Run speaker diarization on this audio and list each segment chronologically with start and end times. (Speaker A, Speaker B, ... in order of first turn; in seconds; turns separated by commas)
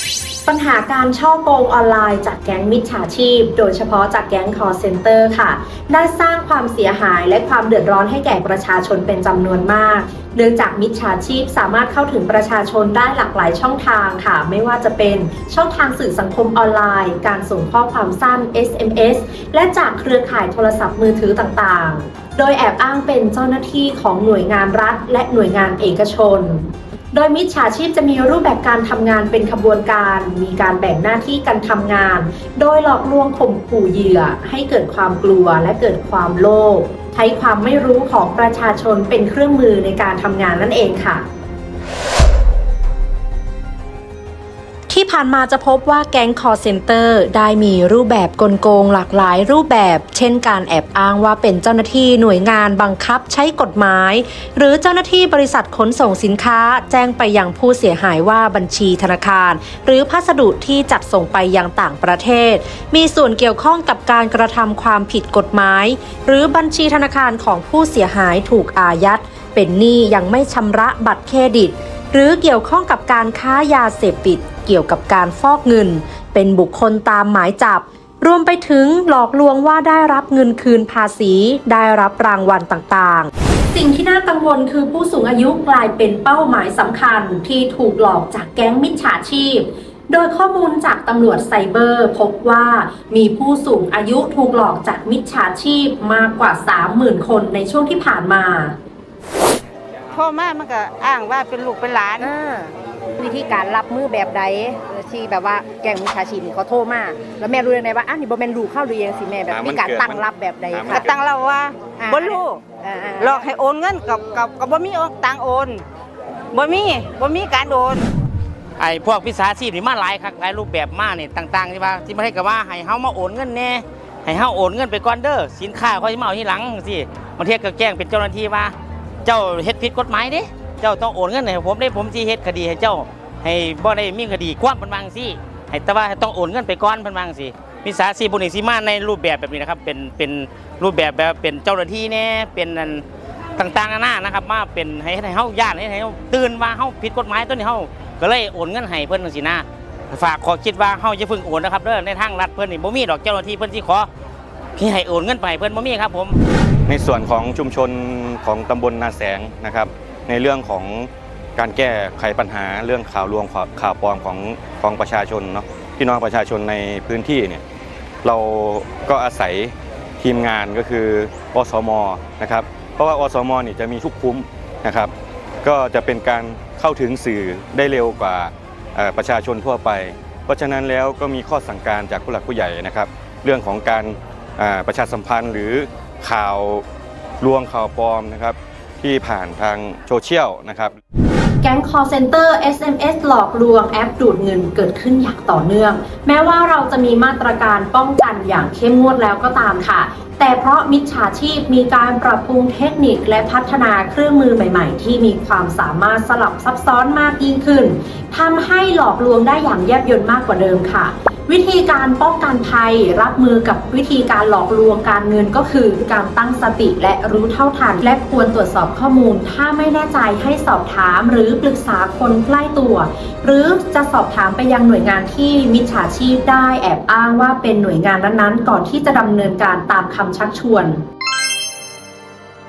Speaker A: 0.5-41.2, Speaker A: 44.9-98.7, Speaker B: 100.1-102.3, Speaker C: 102.2-111.1, Speaker D: 109.5-111.1, Speaker B: 110.9-112.6, Speaker C: 112.0-113.5, Speaker B: 113.2-115.8, Speaker B: 116.5-118.1, Speaker E: 118.8-128.7, Speaker E: 129.2-143.0, Speaker E: 143.6-154.1, Speaker E: 154.8-156.4, Speaker D: 156.9-167.6, Speaker D: 168.2-175.1, Speaker D: 175.6-186.8, Speaker D: 187.4-190.9, Speaker A: 191.6-231.0